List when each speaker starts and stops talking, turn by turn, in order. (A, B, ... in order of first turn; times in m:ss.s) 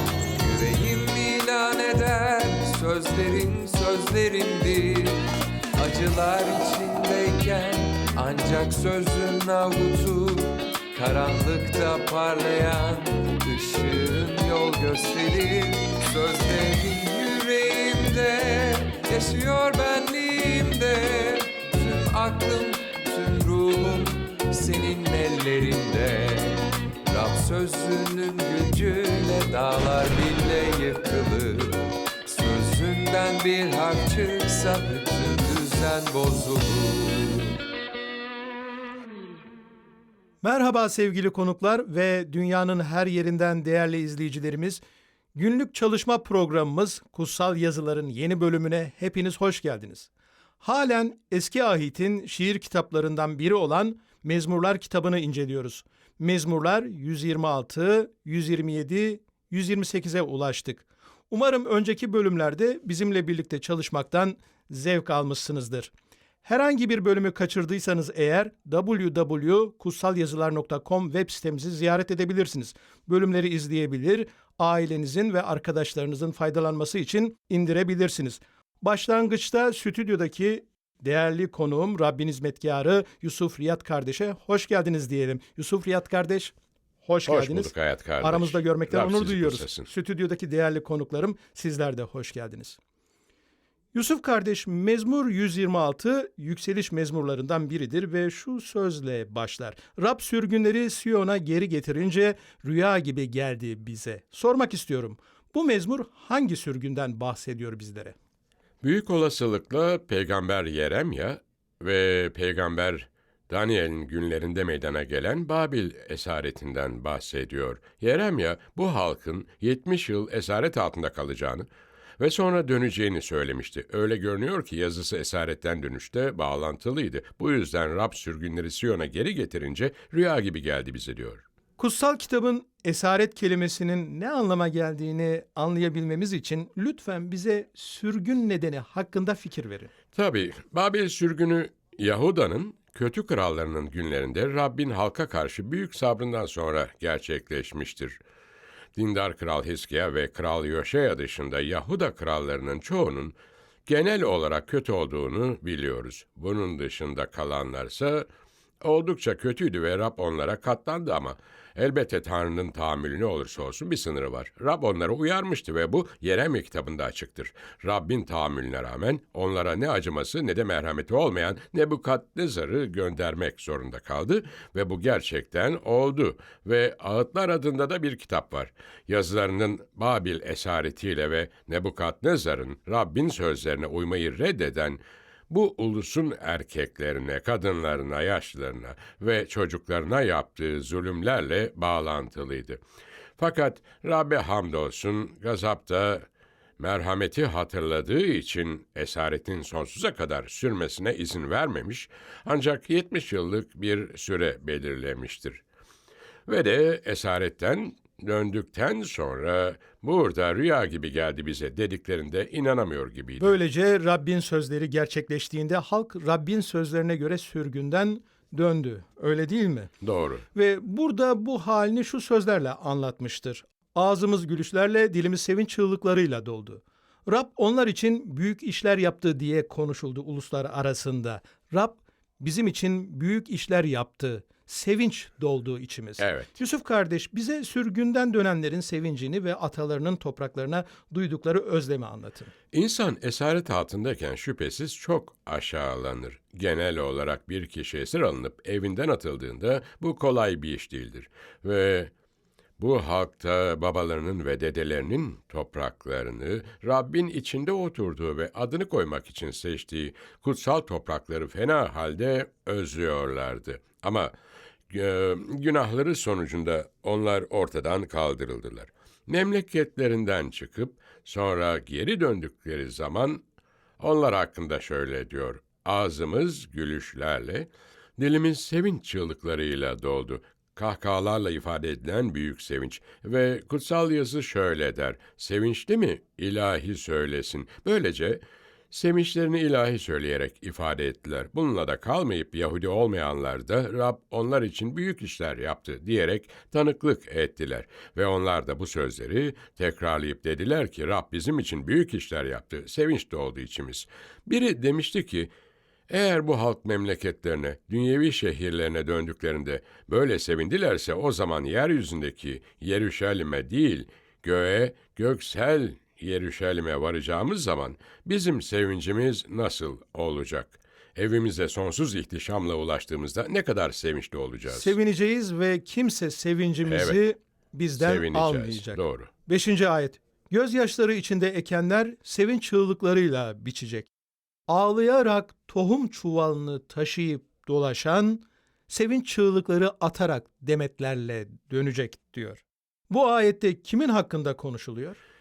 0:00.3-0:05.2 A
0:05.8-0:37.6 A
0:40.4-0:44.8 B
0:45.4-0:50.1 B
0:50.6-1:05.9 B
1:06.4-1:26.5 B
1:27.0-1:32.8 B
1:27.3-1:29.9 C
1:33.9-1:48.2 B
1:48.8-2:11.4 C
2:11.8-2:19.9 B
2:20.1-2:28.2 C
2:29.0-2:33.4 C
2:33.9-2:38.3 C
2:38.8-3:12.8 C
3:13.4-3:16.3 C
3:16.8-3:25.6 C
3:26.5-3:33.6 C
3:33.4-3:39.9 B
3:40.0-3:40.4 C
3:40.6-4:02.5 B
3:56.2-3:56.5 C
4:02.7-4:12.1 C
4:12.8-4:24.3 C
4:24.9-4:33.4 C
4:34.0-5:05.5 C
5:06.1-5:25.0 C
5:24.7-5:34.1 B
5:26.9-5:27.2 C
5:28.0-5:29.3 C
5:34.7-5:45.2 B